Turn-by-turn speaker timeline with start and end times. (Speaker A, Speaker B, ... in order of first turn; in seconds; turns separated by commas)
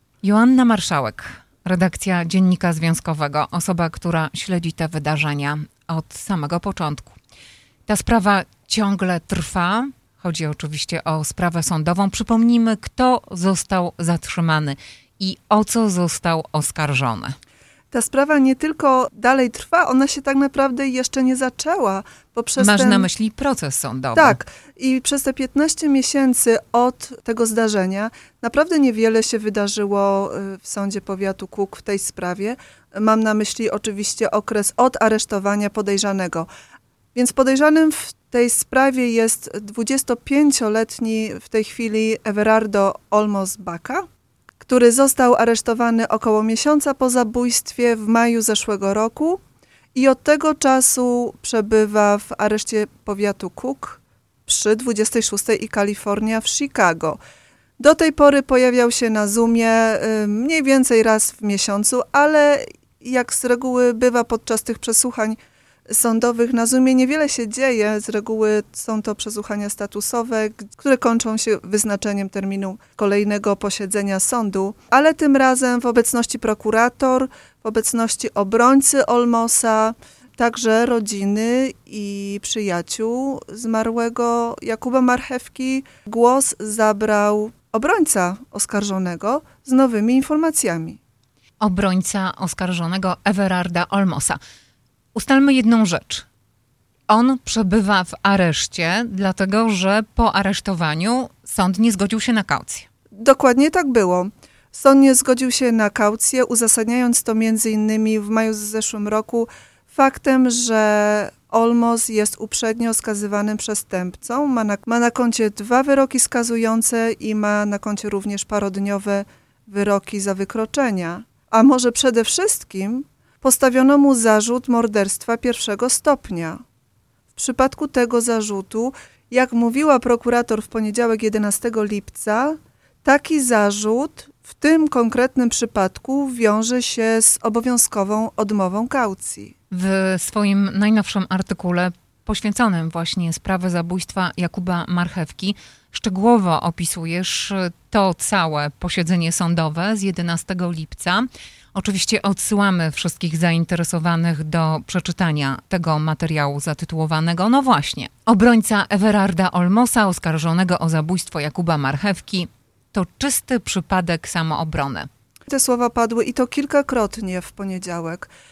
Speaker A: 0.2-7.2, Speaker A: 7.9-17.4, Speaker B: 17.9-23.1, Speaker A: 22.6-24.4, Speaker B: 24.1-36.5, Speaker B: 37.1-44.0, Speaker B: 44.6-49.4, Speaker B: 50.0-57.2, Speaker B: 57.8-91.0, Speaker A: 91.6-94.4, Speaker A: 95.2-96.3, Speaker A: 97.1-102.9, Speaker B: 103.2-126.6, Speaker B: 127.3-139.5, Speaker A: 139.7-165.1, Speaker B: 165.5-168.3